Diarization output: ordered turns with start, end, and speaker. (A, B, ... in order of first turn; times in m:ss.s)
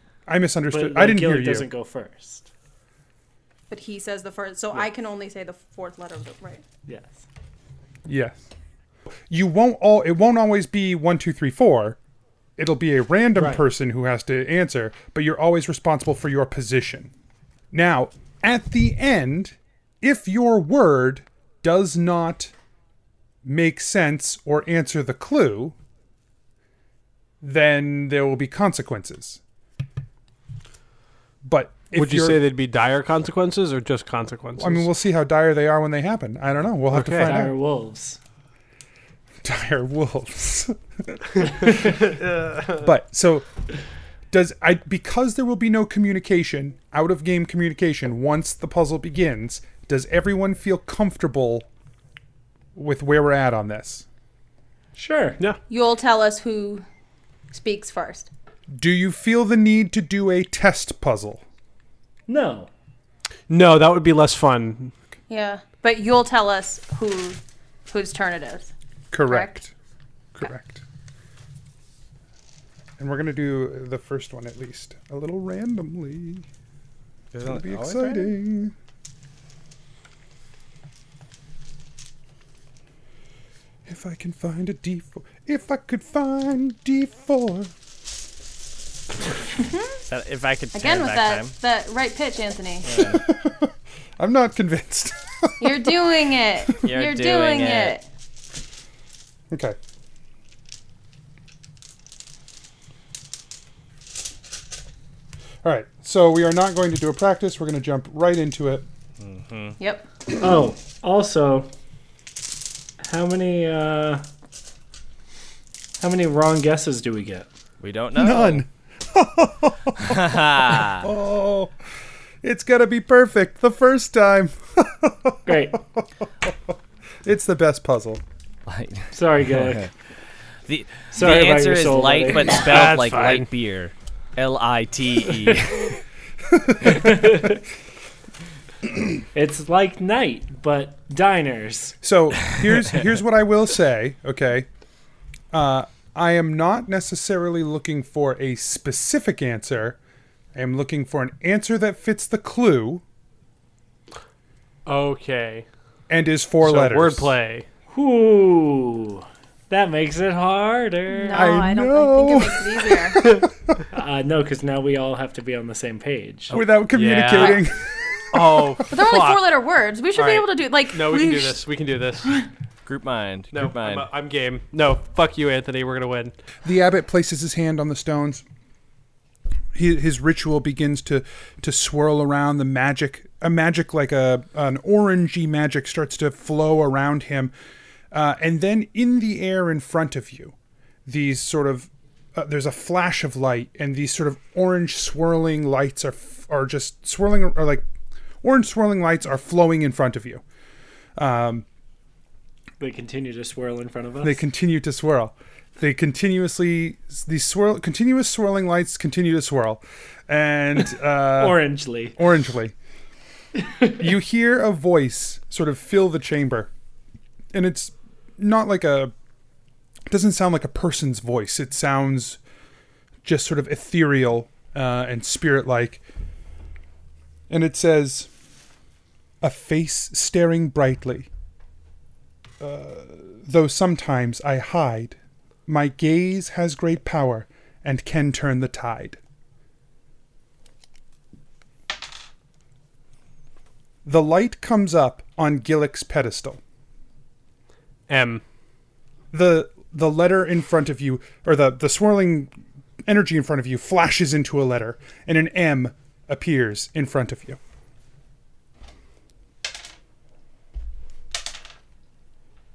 0:00.3-0:01.7 A
0:00.7-0:02.5 B
0:03.7-0:06.6 C
0:06.9-0:07.2 B
0:08.0-0:08.4 A
0:09.3-0:12.0 A
0:12.6-0:17.1 A
0:13.4-0:13.6 B
0:17.7-0:22.5 A
0:23.4-0:25.7 A
0:27.4-0:29.4 A
0:31.4-0:32.4 A
0:31.9-0:34.9 D
0:34.6-0:37.5 A
0:36.9-0:37.4 D
0:37.2-0:38.2 B
0:39.4-0:41.7 A
0:41.8-0:42.8 D
0:42.8-0:43.5 A
0:44.3-0:51.7 A
0:52.8-0:54.0 A
0:55.0-0:55.4 B
0:55.7-0:56.8 C
0:57.5-0:58.3 C
0:58.7-1:01.4 A
1:02.3-1:02.7 B
1:03.5-1:04.9 D
1:05.3-1:08.7 C
1:09.1-1:09.7 A
1:09.2-1:09.5 C
1:10.3-1:10.8 A
1:13.0-1:16.5 A
1:17.3-1:18.3 E
1:17.4-1:18.7 A
1:23.8-1:27.7 A
1:29.6-1:30.0 C
1:30.0-1:31.5 E
1:30.7-1:33.0 C
1:32.8-1:33.2 E
1:33.1-1:35.9 A
1:35.6-1:38.0 C
1:36.8-1:38.0 E
1:39.5-1:39.8 A
1:45.6-1:48.8 A
1:49.2-1:49.8 E
1:49.8-1:50.0 C
1:50.4-1:51.7 B
1:53.0-1:54.2 B
1:56.0-1:57.5 B
1:57.8-1:58.6 E
1:58.2-2:01.7 A
2:00.0-2:01.1 E
2:02.4-2:06.5 A
2:05.4-2:05.8 B
2:07.2-2:08.2 A
2:08.7-2:09.1 E
2:09.1-2:09.9 B
2:10.6-2:15.9 E
2:11.1-2:12.7 B
2:12.6-2:13.5 D
2:16.5-2:17.2 A
2:16.8-2:17.6 B
2:19.3-2:22.0 B
2:22.0-2:24.7 A
2:25.5-2:30.0 A
2:30.5-2:33.0 A
2:34.8-2:35.6 D
2:36.1-2:37.3 A
2:36.6-2:37.7 D
2:37.9-2:41.6 B
2:41.1-2:43.3 C
2:41.3-2:43.4 A
2:43.9-2:46.6 B
2:46.5-2:48.6 A
2:46.5-2:47.6 D
2:47.3-2:47.6 C
2:48.3-2:49.4 D
2:48.9-2:51.6 C
2:50.1-2:52.4 D
2:52.8-2:54.0 E
2:53.5-2:56.3 D
2:56.6-2:58.4 A
2:59.7-3:07.5 A
3:08.1-3:10.5 A
3:11.0-3:17.8 A
3:18.4-3:20.4 A
3:21.2-3:21.6 A
3:22.8-3:24.4 B
3:24.2-3:32.7 A
3:30.8-3:32.2 B
3:33.6-3:33.9 B
3:34.0-3:36.7 A
3:37.5-3:39.1 A
3:40.1-3:42.4 A
3:43.2-3:46.0 A
3:47.5-3:48.3 A
3:49.4-3:51.3 A
3:52.6-3:59.2 A
4:04.0-4:06.6 A
4:08.1-4:08.4 D
4:09.3-4:12.5 A
4:13.1-4:17.6 A